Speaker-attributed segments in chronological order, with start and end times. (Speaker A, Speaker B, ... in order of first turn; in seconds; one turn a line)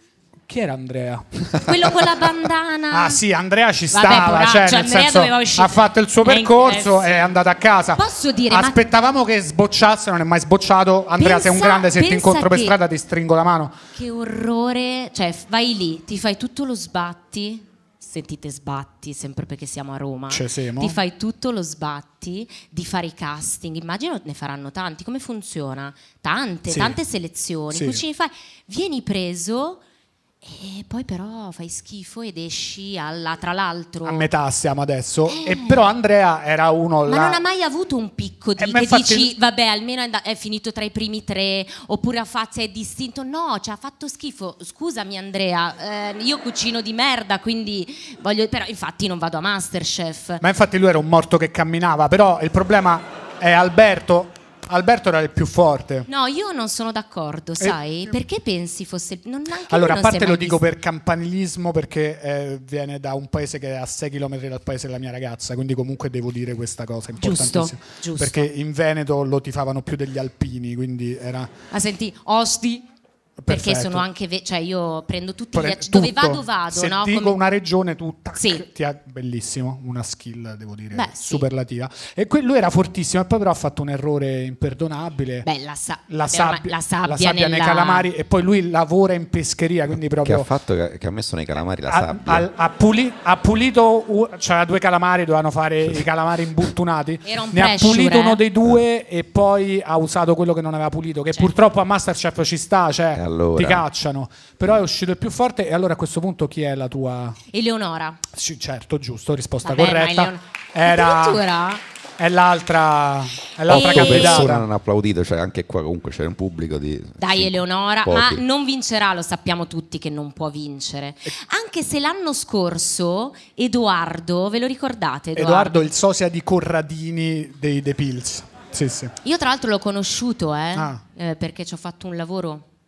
Speaker A: 0.5-2.4
Speaker B: 1.6-3.2
Speaker A: 2.9-13.8
Speaker B: 3.9-7.3
Speaker B: 7.9-8.8
Speaker B: 11.2-12.8
Speaker B: 13.9-29.8
Speaker A: 20.3-21.0
Speaker A: 26.7-27.0
Speaker A: 27.7-28.0
Speaker B: 30.4-34.3
Speaker A: 34.0-37.4
Speaker B: 35.3-35.8
Speaker B: 37.0-50.4
Speaker A: 38.6-39.3
Speaker A: 50.4-56.1
Speaker B: 56.1-60.6
Speaker A: 59.7-71.5
Speaker B: 67.2-68.5
Speaker B: 71.7-72.9
Speaker A: 73.4-74.1
Speaker B: 73.5-77.4
Speaker A: 75.5-85.5
Speaker B: 78.4-78.6
Speaker B: 80.9-81.5
Speaker B: 85.4-88.1
Speaker A: 86.1-90.5
Speaker C: 90.1-92.5
Speaker A: 91.9-107.4
Speaker B: 97.2-98.4
Speaker C: 103.1-103.8
Speaker B: 107.5-108.2
Speaker A: 108.3-111.5
Speaker B: 109.6-111.8
Speaker A: 112.2-114.7
Speaker C: 113.7-118.4
Speaker B: 113.7-114.5
Speaker B: 117.2-125.8
Speaker A: 125.3-129.1
Speaker B: 129.2-132.7
Speaker A: 130.7-131.0